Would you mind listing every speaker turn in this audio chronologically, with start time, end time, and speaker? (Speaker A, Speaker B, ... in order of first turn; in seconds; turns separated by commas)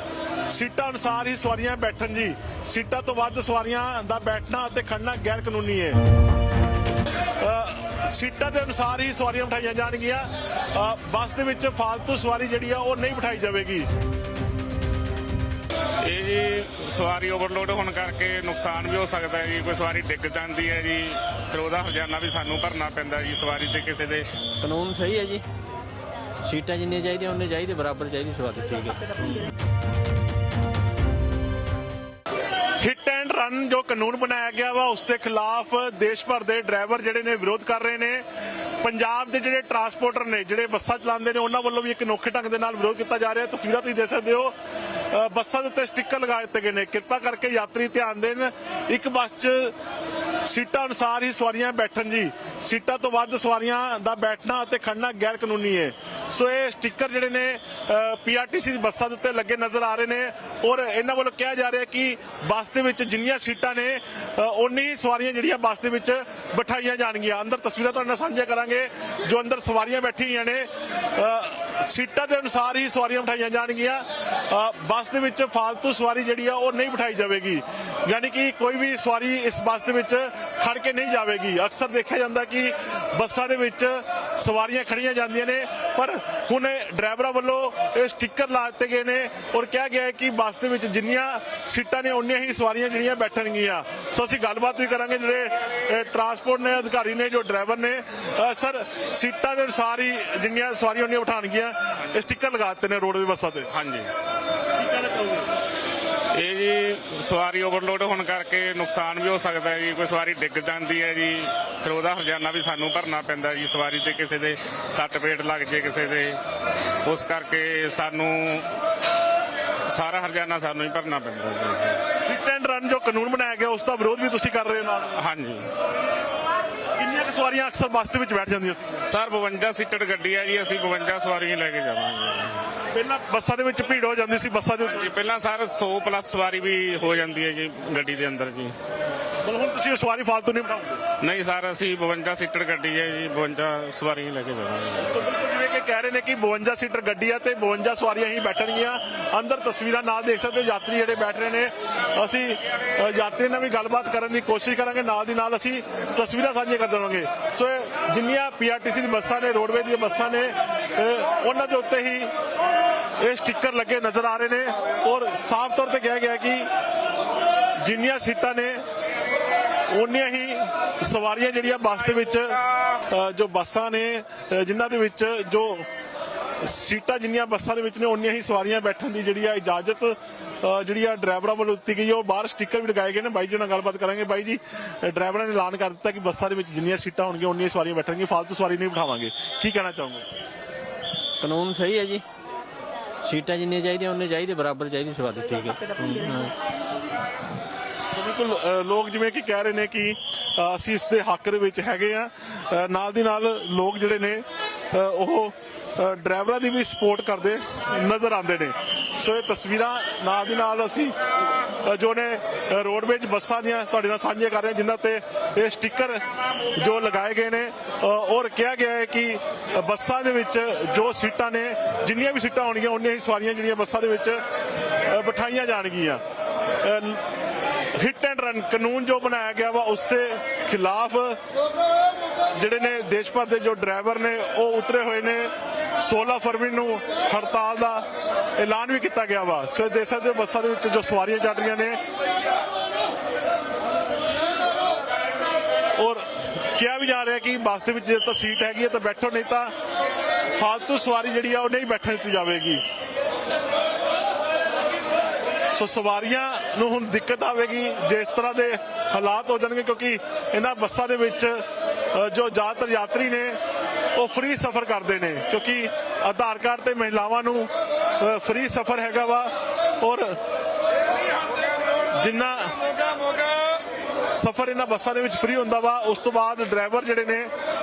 Speaker A: 0.5-6.0, Speaker A: 7.4-13.9, Speaker B: 16.0-24.3, Speaker C: 24.6-25.4, Speaker C: 26.4-29.5, Speaker A: 32.8-38.2, Speaker A: 38.8-44.5, Speaker A: 45.1-49.7, Speaker A: 50.4-103.7, Speaker B: 103.7-104.1, Speaker A: 104.8-105.4, Speaker B: 106.3-116.4, Speaker B: 117.0-118.7, Speaker B: 119.9-122.0, Speaker A: 122.2-125.2, Speaker B: 125.2-125.7, Speaker A: 127.0-129.0, Speaker B: 129.0-132.6, Speaker A: 132.9-135.1, Speaker B: 134.8-138.7, Speaker A: 139.4-141.0, Speaker B: 141.2-145.2, Speaker A: 145.0-162.3, Speaker A: 163.2-166.7, Speaker A: 167.8-168.8, Speaker A: 169.9-175.9, Speaker A: 176.6-190.2, Speaker C: 191.4-192.2, Speaker C: 193.2-196.5, Speaker A: 198.1-224.4, Speaker A: 225.1-226.2, Speaker A: 226.8-227.2, Speaker A: 228.0-231.4, Speaker A: 232.5-238.1, Speaker A: 238.6-242.0, Speaker A: 245.9-249.7, Speaker A: 250.5-252.8, Speaker A: 255.7-263.6, Speaker A: 264.1-270.4, Speaker A: 272.1-273.1, Speaker A: 274.3-277.5